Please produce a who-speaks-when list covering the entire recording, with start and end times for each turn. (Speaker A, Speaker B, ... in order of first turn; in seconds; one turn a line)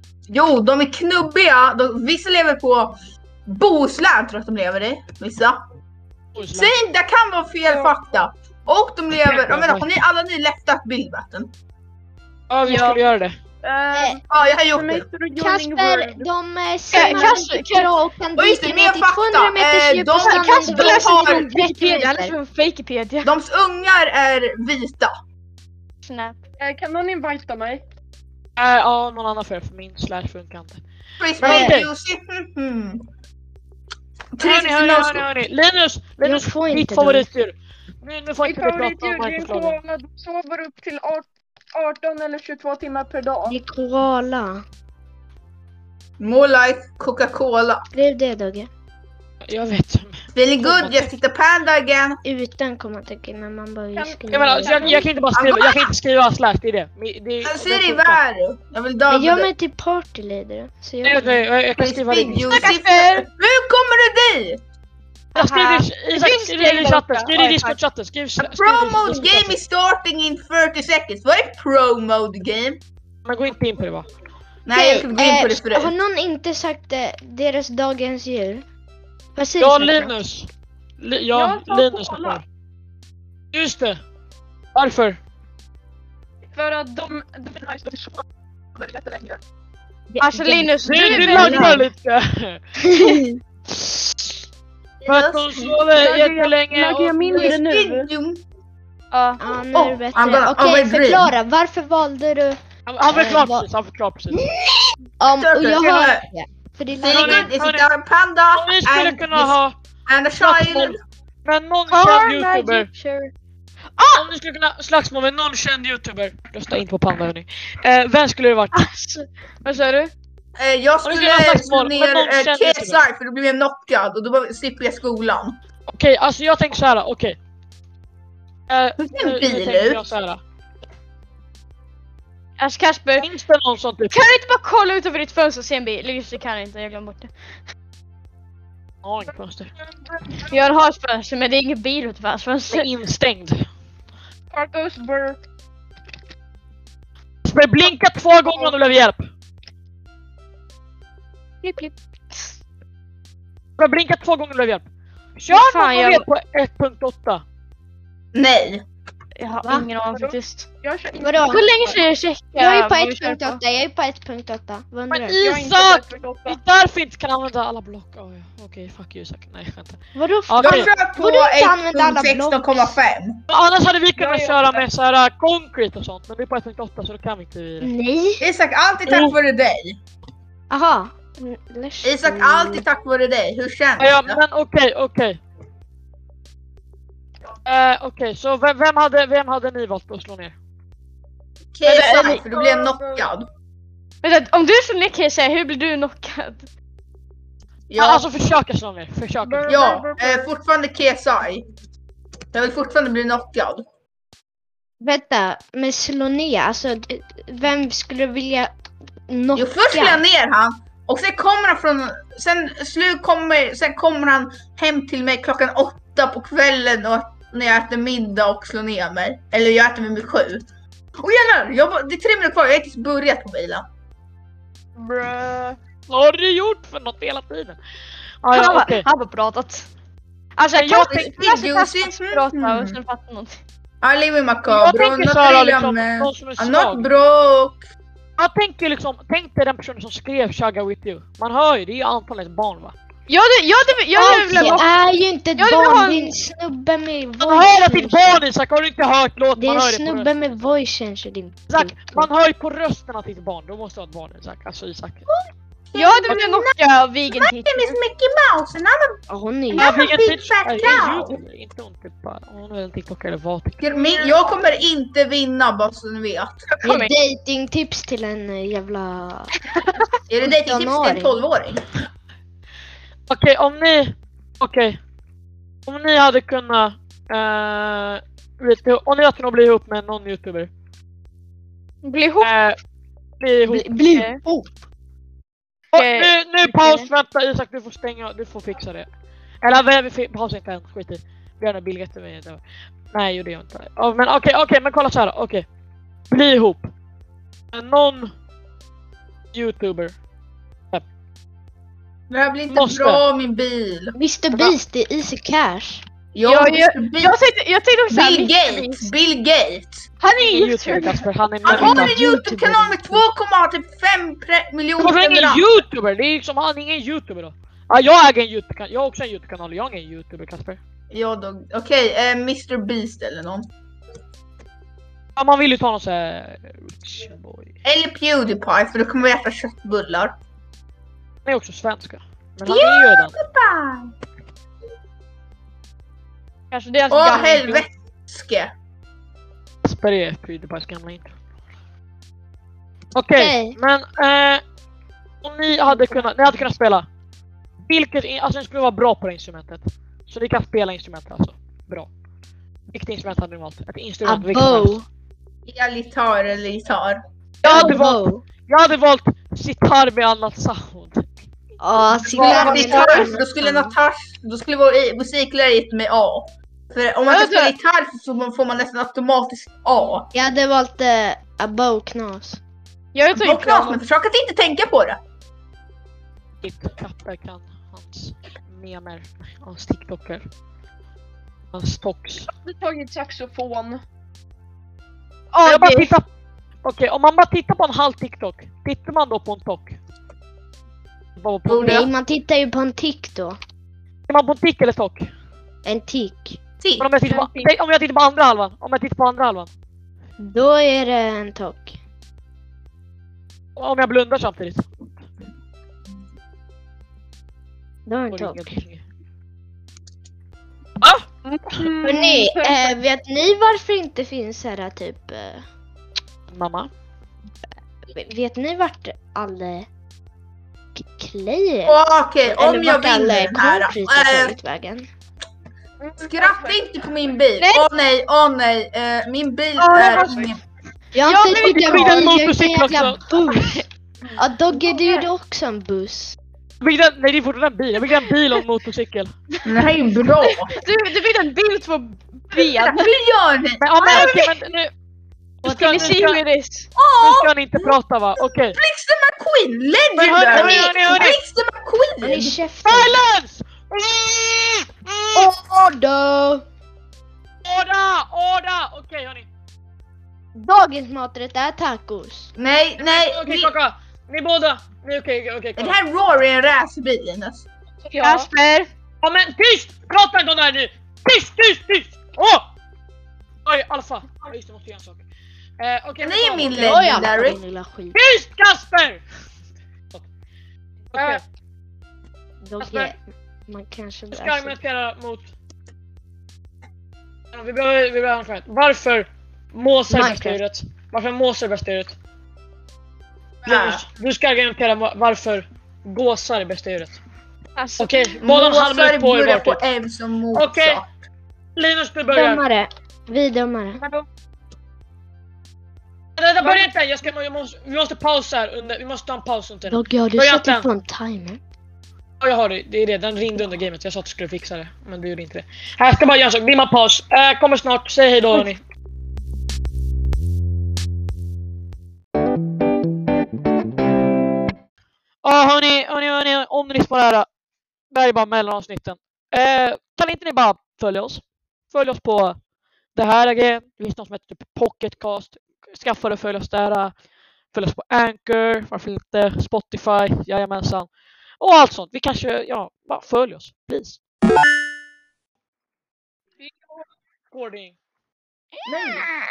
Speaker A: 0.3-5.6
Speaker B: 6.3-6.7
Speaker A: 6.5-11.5
Speaker C: 7.7-8.0
Speaker B: 9.2-9.9
Speaker B: 12.5-13.3
Speaker D: 12.7-13.0
Speaker C: 13.6-16.3
Speaker E: 13.9-14.2
Speaker A: 14.3-15.1
Speaker E: 15.4-22.4
Speaker D: 16.9-17.9
Speaker C: 17.0-17.4
Speaker A: 18.4-21.5
Speaker D: 20.2-23.3
Speaker A: 23.2-25.1
Speaker D: 26.0-26.4
Speaker C: 26.6-27.8
Speaker B: 28.6-30.8
Speaker A: 31.2-33.0
Speaker B: 31.4-31.9
Speaker E: 31.4-31.8
Speaker A: 34.4-35.3
Speaker B: 34.4-39.8
Speaker E: 36.2-37.3
Speaker C: 38.4-43.6
Speaker E: 43.5-44.6
Speaker A: 46.2-47.8
Speaker E: 47.9-48.7
Speaker B: 49.5-51.1
Speaker A: 50.3-52.2
Speaker E: 52.2-55.0
Speaker C: 54.0-55.1
Speaker B: 54.3-58.2
Speaker A: 55.3-55.9
Speaker A: 57.4-59.5
Speaker E: 59.1-61.4
Speaker B: 61.0-62.7
Speaker A: 61.8-64.6
Speaker D: 62.5-63.3
Speaker D: 65.3-67.8
Speaker B: 65.3-69.6
Speaker A: 68.4-72.8
Speaker B: 73.2-74.1
Speaker A: 74.7-75.9
Speaker E: 74.7-78.6
Speaker E: 79.3-80.1
Speaker B: 79.6-80.5
Speaker B: 81.0-82.4
Speaker C: 81.3-82.4
Speaker B: 83.5-84.0
Speaker B: 84.7-85.2
Speaker C: 86.5-88.2
Speaker C: 88.8-89.3
Speaker E: 90.1-91.9
Speaker D: 90.2-91.8
Speaker B: 90.8-92.6
Speaker E: 92.8-94.0
Speaker A: 95.0-95.8
Speaker B: 95.1-97.5
Speaker C: 95.9-98.1
Speaker A: 97.3-98.4
Speaker D: 99.1-99.4
Speaker E: 99.4-103.7
Speaker A: 99.7-101.3
Speaker B: 102.9-104.4
Speaker E: 104.3-107.5
Speaker A: 105.3-106.2
Speaker B: 105.8-106.1
Speaker A: 107.0-109.6
Speaker B: 107.1-107.9
Speaker B: 108.5-109.7
Speaker A: 110.1-111.0
Speaker B: 110.4-112.9
Speaker D: 111.9-113.3
Speaker D: 114.0-114.2
Speaker B: 114.1-118.8
Speaker D: 118.7-120.1
Speaker A: 120.6-125.6
Speaker B: 121.0-123.0
Speaker B: 125.9-127.4
Speaker B: 128.7-130.4
Speaker A: 129.0-130.0
Speaker D: 132.6-133.3
Speaker B: 133.2-134.3
Speaker D: 134.1-137.3
Speaker B: 139.0-139.7
Speaker D: 140.5-142.8
Speaker B: 142.7-143.7
Speaker C: 144.5-145.4
Speaker B: 147.4-149.2
Speaker D: 151.6-152.5
Speaker B: 153.8-154.8
Speaker B: 155.3-157.4
Speaker D: 155.5-156.2
Speaker A: 158.3-158.8
Speaker D: 159.4-160.7
Speaker C: 160.8-161.7
Speaker E: 161.2-161.7
Speaker D: 161.5-163.6
Speaker E: 162.6-165.4
Speaker B: 165.1-170.0
Speaker C: 165.3-166.6
Speaker E: 170.1-173.0
Speaker B: 170.5-170.9
Speaker A: 170.6-173.4
Speaker B: 173.5-177.9
Speaker C: 174.2-174.9
Speaker E: 177.8-178.4
Speaker A: 178.4-180.0
Speaker B: 179.1-179.3
Speaker E: 180.7-182.8
Speaker A: 182.0-184.4
Speaker B: 184.0-185.4
Speaker B: 187.6-190.5
Speaker A: 191.7-193.5
Speaker C: 191.8-193.3
Speaker D: 191.9-192.4
Speaker D: 194.2-196.7
Speaker A: 197.9-198.2
Speaker B: 198.0-199.8
Speaker C: 199.4-200.5
Speaker A: 199.7-201.6
Speaker A: 202.5-203.8
Speaker E: 205.0-208.7
Speaker E: 209.3-210.2
Speaker A: 209.5-220.6
Speaker A: 221.2-223.8
Speaker C: 225.0-225.8
Speaker B: 226.1-227.8
Speaker B: 228.4-229.0
Speaker D: 228.5-229.9
Speaker D: 230.6-233.6
Speaker B: 230.7-231.3
Speaker A: 231.2-233.0
Speaker A: 234.0-237.8
Speaker B: 234.7-237.1
Speaker B: 238.4-242.9
Speaker D: 243.3-244.9
Speaker E: 244.2-248.4
Speaker B: 244.2-244.8
Speaker D: 245.6-246.3
Speaker B: 247.4-250.3
Speaker E: 249.6-252.3
Speaker B: 251.7-255.2
Speaker A: 255.9-256.8
Speaker D: 255.9-258.0
Speaker A: 257.3-259.2
Speaker E: 259.3-259.9
Speaker A: 259.7-261.4
Speaker B: 259.7-263.8
Speaker A: 263.8-266.6
Speaker D: 266.8-267.1
Speaker E: 266.8-269.5
Speaker A: 270.3-271.9
Speaker E: 270.4-271.4
Speaker B: 273.3-275.0
Speaker B: 275.9-280.7
Speaker D: 282.0-282.5
Speaker B: 282.4-282.8
Speaker B: 283.4-284.0
Speaker E: 283.7-284.7
Speaker D: 284.1-284.4
Speaker D: 285.9-287.1
Speaker B: 285.9-289.1
Speaker B: 289.6-295.6
Speaker B: 296.3-296.9
Speaker B: 297.7-298.3
Speaker B: 299.5-300.1
Speaker A: 302.3-304.1
Speaker B: 302.7-303.2
Speaker E: 304.1-306.0
Speaker A: 306.3-307.4
Speaker D: 306.4-309.1
Speaker A: 308.1-310.0
Speaker D: 310.2-311.1
Speaker B: 310.4-312.2
Speaker A: 311.6-315.6
Speaker E: 311.7-313.2
Speaker B: 315.0-320.8
Speaker A: 321.1-323.7
Speaker B: 325.4-327.7
Speaker A: 327.8-330.3
Speaker B: 331.4-333.4
Speaker A: 332.7-334.1
Speaker D: 336.7-337.9
Speaker A: 337.1-338.7
Speaker B: 339.8-341.3
Speaker B: 343.1-344.6
Speaker E: 343.4-343.8
Speaker B: 345.4-347.1
Speaker B: 347.9-352.1
Speaker B: 352.9-355.0
Speaker E: 354.2-355.1
Speaker A: 355.7-357.2
Speaker E: 357.6-358.4
Speaker B: 357.6-361.3
Speaker E: 361.8-363.9
Speaker B: 362.3-363.3
Speaker A: 362.3-370.3
Speaker D: 367.3-367.7
Speaker E: 370.3-372.6
Speaker D: 373.1-374.0
Speaker A: 373.3-375.2
Speaker B: 376.6-380.4
Speaker B: 381.7-382.5
Speaker C: 382.5-384.0
Speaker D: 385.5-386.1
Speaker B: 385.6-386.2
Speaker B: 386.8-389.9
Speaker B: 391.4-392.1
Speaker A: 391.7-392.1
Speaker E: 391.8-393.6
Speaker B: 394.3-395.3
Speaker E: 395.8-396.6
Speaker A: 396.8-397.1
Speaker B: 397.0-399.7
Speaker D: 397.3-397.6
Speaker E: 400.4-402.0
Speaker B: 403.8-405.1
Speaker E: 408.1-408.7
Speaker B: 408.3-409.0
Speaker C: 411.4-413.0
Speaker E: 412.0-415.6
Speaker B: 416.5-416.9
Speaker E: 418.1-419.9
Speaker E: 420.9-425.1
Speaker A: 421.9-424.5
Speaker C: 426.0-426.8
Speaker A: 426.2-430.6
Speaker D: 427.6-427.9
Speaker D: 429.8-430.4
Speaker C: 429.9-430.5
Speaker E: 431.1-433.8
Speaker D: 431.2-432.2
Speaker B: 431.5-433.8
Speaker E: 434.4-436.4
Speaker B: 436.8-439.3
Speaker A: 439.6-440.7
Speaker D: 440.4-443.1
Speaker A: 442.5-444.3
Speaker B: 443.8-444.9
Speaker D: 444.0-444.5
Speaker B: 445.6-446.4
Speaker D: 445.6-446.9
Speaker A: 446.9-447.9
Speaker B: 447.2-448.8
Speaker A: 448.7-452.6
Speaker B: 450.1-451.4
Speaker E: 450.5-451.2
Speaker E: 452.2-453.2
Speaker B: 452.8-455.5
Speaker E: 455.3-456.6
Speaker B: 457.6-459.4
Speaker E: 460.5-462.5
Speaker A: 462.6-463.7
Speaker B: 463.0-466.0
Speaker A: 465.8-467.6
Speaker C: 468.0-468.5
Speaker D: 468.2-468.9
Speaker B: 469.2-472.7
Speaker B: 473.6-475.2
Speaker B: 475.8-477.0
Speaker A: 476.2-477.6
Speaker E: 476.7-478.2
Speaker B: 478.1-479.2
Speaker B: 481.1-481.4
Speaker C: 481.1-481.4
Speaker E: 482.6-484.8
Speaker B: 482.8-483.1
Speaker B: 484.3-485.5
Speaker B: 487.5-492.1
Speaker E: 490.1-490.6
Speaker A: 493.6-494.0
Speaker B: 493.6-497.2
Speaker D: 497.8-498.3
Speaker B: 498.0-499.8
Speaker A: 498.4-501.1
Speaker B: 500.5-501.0
Speaker B: 501.8-502.6
Speaker E: 502.3-504.0
Speaker B: 506.4-510.9
Speaker C: 506.6-506.9
Speaker E: 509.9-511.6
Speaker B: 512.4-518.8
Speaker B: 525.4-527.5
Speaker B: 528.1-532.6
Speaker B: 533.1-537.1
Speaker B: 537.7-541.1
Speaker B: 541.6-544.2
Speaker B: 547.5-548.0
Speaker A: 548.9-549.3